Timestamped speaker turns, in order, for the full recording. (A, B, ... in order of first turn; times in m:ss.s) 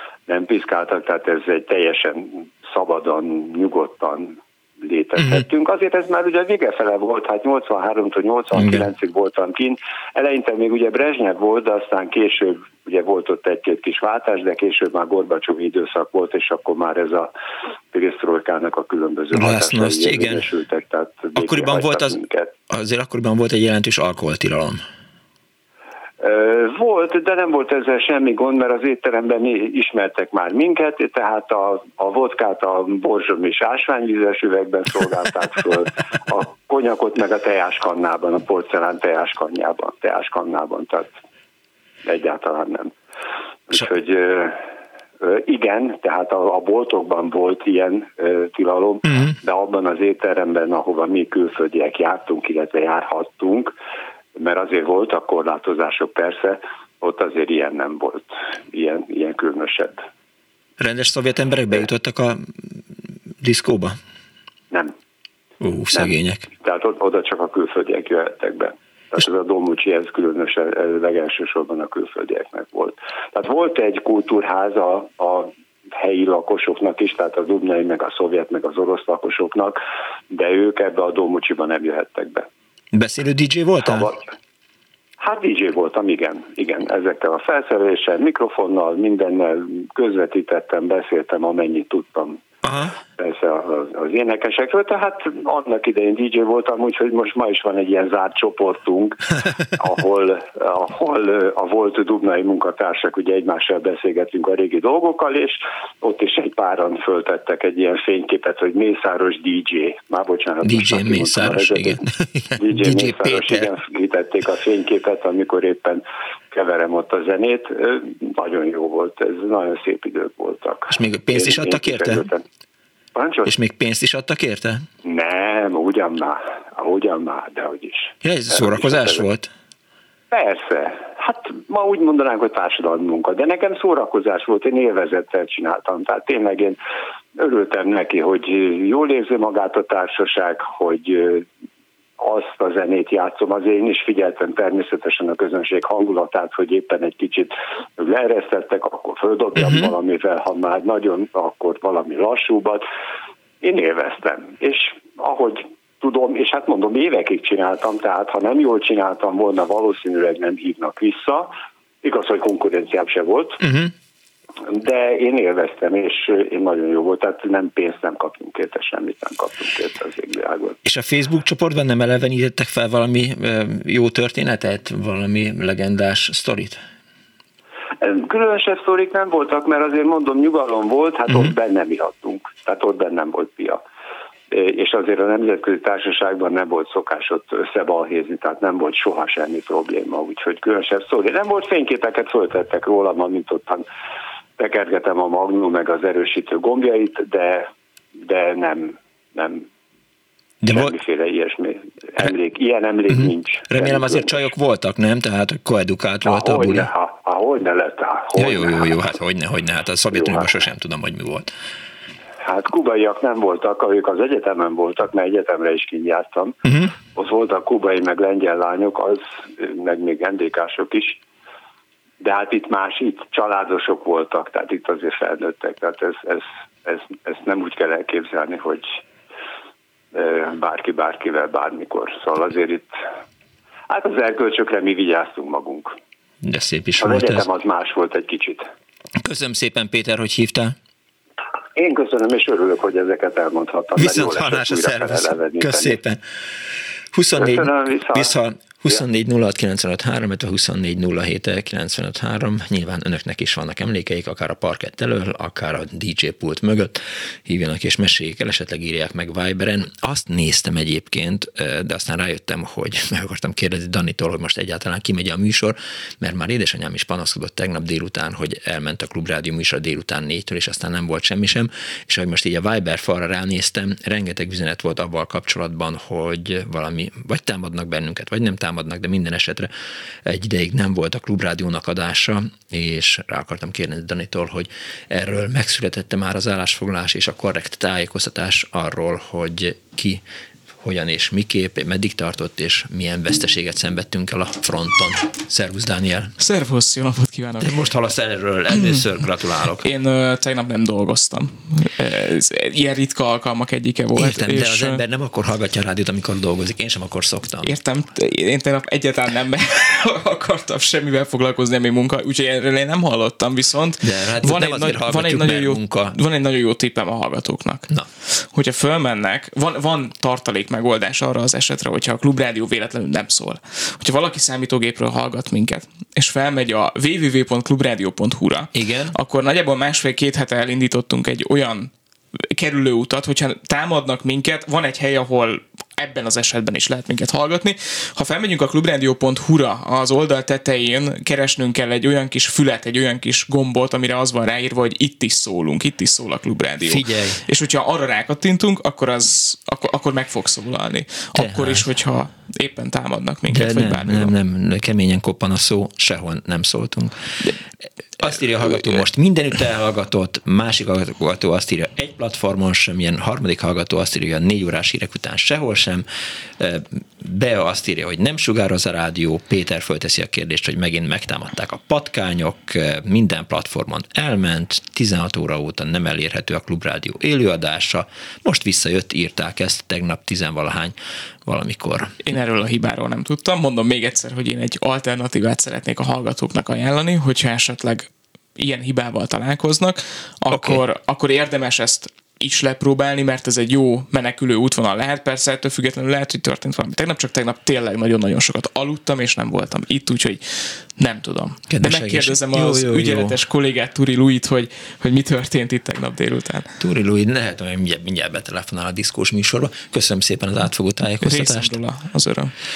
0:00.3-0:17.3 A
0:05.2-0:05.4 B
0:08.5-0:08.9 B
0:17.9-0:22.5 A
0:19.3-0:20.4 B
0:21.4-0:22.2 B
0:22.7-0:24.8 B
0:26.2-0:41.1 A
0:42.0-0:42.9 A
0:43.7-0:44.7 A
0:45.2-0:53.7 A
0:49.1-0:49.3 B
0:54.4-1:00.0 A
1:00.8-1:02.8 B
1:03.4-1:04.0 B
1:05.6-1:06.5 B
1:05.9-1:19.8 A
1:20.3-1:22.5 A
1:22.9-1:24.1 B
1:23.8-1:24.2 A
1:25.2-1:32.4 A
1:32.6-1:32.9 B
1:33.2-1:52.0 A
1:50.6-1:53.7 B
1:52.6-2:02.4 A
2:00.9-2:02.3 B
2:03.1-2:03.5 A
2:03.4-2:04.8 B
2:05.0-2:09.2 A
2:08.2-2:09.5 B
2:10.3-2:16.8 A
2:17.4-2:21.5 A
2:22.2-2:32.8 A
2:29.6-2:29.9 B
2:33.6-2:41.5 A
2:42.0-2:43.6 A
2:43.6-2:43.9 B
2:44.7-2:50.8 A
2:50.8-2:56.8 B
2:58.0-3:03.8 A
3:04.5-3:13.8 A
3:14.6-3:19.7 A
3:20.6-3:21.0 B
3:20.7-3:24.5 A
3:23.1-3:26.9 B
3:26.3-3:28.9 A
3:28.4-3:31.5 B
3:30.1-3:30.5 A
3:32.4-3:36.6 A
3:36.6-3:36.9 B
3:37.1-3:41.2 A
3:42.2-3:49.0 A
3:50.1-3:52.9 A
3:53.9-3:55.9 A
3:56.4-3:57.5 B
3:57.0-3:58.6 A
3:59.2-4:00.8 B
4:01.8-4:06.0 A
4:04.0-4:06.2 B
4:07.1-4:39.7 B
4:07.4-4:08.3 A
4:40.2-4:50.2 B
4:50.8-4:56.3 B
4:56.4-4:57.8 C
4:57.6-4:59.9 B
4:59.8-5:05.0 C
5:04.2-5:07.7 B
5:07.6-5:17.9 C
5:14.0-5:16.2 B
5:18.5-5:31.9 C
5:28.7-5:29.2 B
5:32.5-5:54.3 C
5:46.8-5:47.4 B
5:51.4-5:51.8 B
5:53.5-5:57.2 B
5:58.2-6:06.0 B
6:06.6-6:22.2 B
6:22.2-6:46.8 C
6:30.5-6:30.8 B
6:41.7-6:43.4 B
6:46.8-6:51.8 B
6:51.2-6:52.5 C